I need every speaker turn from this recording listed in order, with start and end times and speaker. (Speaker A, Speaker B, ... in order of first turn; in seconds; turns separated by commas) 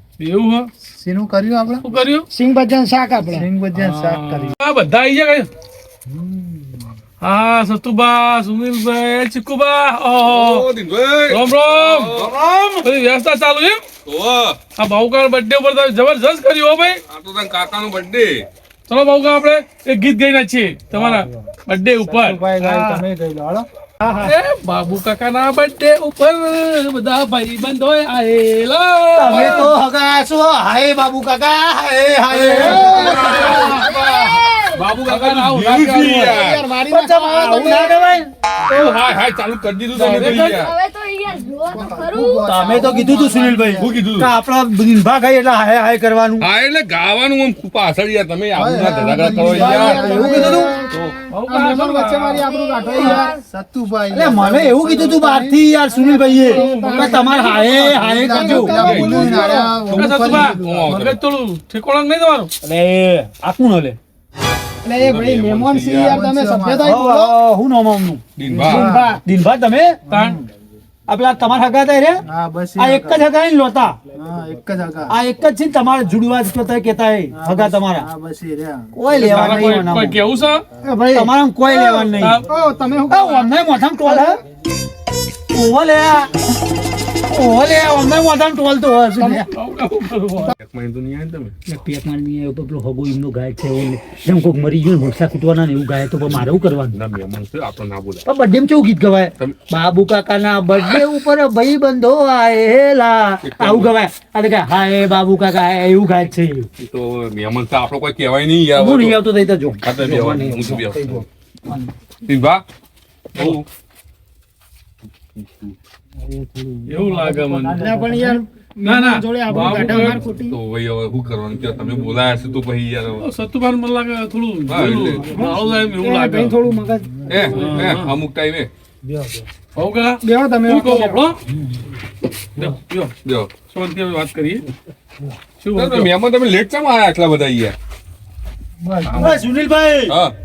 Speaker A: 0.2-0.7, Speaker B: 0.8-1.9, Speaker A: 1.8-2.2, Speaker C: 2.3-3.5, Speaker B: 3.3-4.5, Speaker A: 3.7-5.5, Speaker B: 6.1-7.0, Speaker A: 7.2-10.7, Speaker D: 10.2-12.4, Speaker A: 11.3-13.8, Speaker D: 14.1-14.6, Speaker A: 14.7-17.0, Speaker D: 17.1-18.4, Speaker A: 18.9-23.0, Speaker B: 20.9-21.5, Speaker B: 22.0-23.7, Speaker C: 24.0-24.3, Speaker A: 24.2-29.7, Speaker E: 29.1-33.4, Speaker A: 32.3-33.9, Speaker B: 32.5-33.8, Speaker C: 32.6-33.4, Speaker F: 33.3-34.8, Speaker D: 33.8-36.6, Speaker A: 34.9-36.4, Speaker E: 35.8-36.1, Speaker C: 36.1-38.1, Speaker E: 36.9-38.3, Speaker D: 38.7-40.8, Speaker E: 40.0-40.5, Speaker A: 40.0-40.4, Speaker F: 40.3-43.2, Speaker B: 41.4-43.9, Speaker E: 42.4-46.5, Speaker D: 43.8-44.3, Speaker D: 46.4-50.1, Speaker B: 48.5-50.8, Speaker C: 49.3-50.9, Speaker E: 49.7-50.7, Speaker D: 50.9-51.2, Speaker A: 51.3-52.5, Speaker C: 51.5-53.4, Speaker F: 52.5-53.4, Speaker B: 52.9-55.6, Speaker E: 54.1-59.0, Speaker C: 55.9-59.8, Speaker A: 56.5-57.2, Speaker B: 57.4-61.0, Speaker D: 58.7-61.2, Speaker A: 59.9-62.5, Speaker E: 62.6-64.0, Speaker C: 64.8-67.3, Speaker D: 65.0-66.2, Speaker B: 65.9-67.0, Speaker E: 66.8-68.2, Speaker D: 68.4-68.9, Speaker B: 68.4-69.2, Speaker C: 68.6-69.2, Speaker E: 69.2-70.0, Speaker B: 70.1-70.5, Speaker A: 70.1-70.4, Speaker E: 71.1-72.2, Speaker B: 72.2-73.2, Speaker E: 72.8-74.0, Speaker B: 74.1-75.2, Speaker E: 75.1-78.1, Speaker B: 77.3-80.0, Speaker E: 78.9-80.2, Speaker A: 79.1-80.6, Speaker C: 80.8-83.5, Speaker E: 81.1-82.4, Speaker A: 82.1-82.4, Speaker E: 83.1-84.4, Speaker C: 84.1-84.3, Speaker E: 85.5-86.3, Speaker E: 87.3-89.5, Speaker A: 89.2-90.5, Speaker D: 90.5-91.5, Speaker E: 91.7-97.0, Speaker D: 96.3-98.2, Speaker E: 98.2-106.7, Speaker D: 99.4-99.6, Speaker D: 103.4-103.9, Speaker D: 106.8-109.2, Speaker E: 108.7-111.8, Speaker D: 109.8-111.2, Speaker D: 112.2-112.6, Speaker D: 113.3-113.7, Speaker D: 115.3-115.7, Speaker B: 116.2-118.4, Speaker A: 116.9-117.8, Speaker C: 117.8-120.6, Speaker A: 118.8-120.2, Speaker B: 119.5-120.3, Speaker D: 120.4-123.3, Speaker B: 121.6-122.5, Speaker A: 123.2-126.5, Speaker D: 124.7-125.3, Speaker B: 124.8-125.9, Speaker C: 125.3-127.5, Speaker B: 127.0-127.9, Speaker D: 127.3-128.7, Speaker A: 127.5-128.2, Speaker B: 129.0-129.5, Speaker A: 129.8-131.4, Speaker C: 130.2-131.2, Speaker B: 131.5-131.8, Speaker A: 132.6-134.7, Speaker D: 133.2-133.6, Speaker A: 135.6-136.1, Speaker D: 135.7-137.7, Speaker B: 138.8-139.5, Speaker E: 139.1-140.2, Speaker D: 140.1-140.3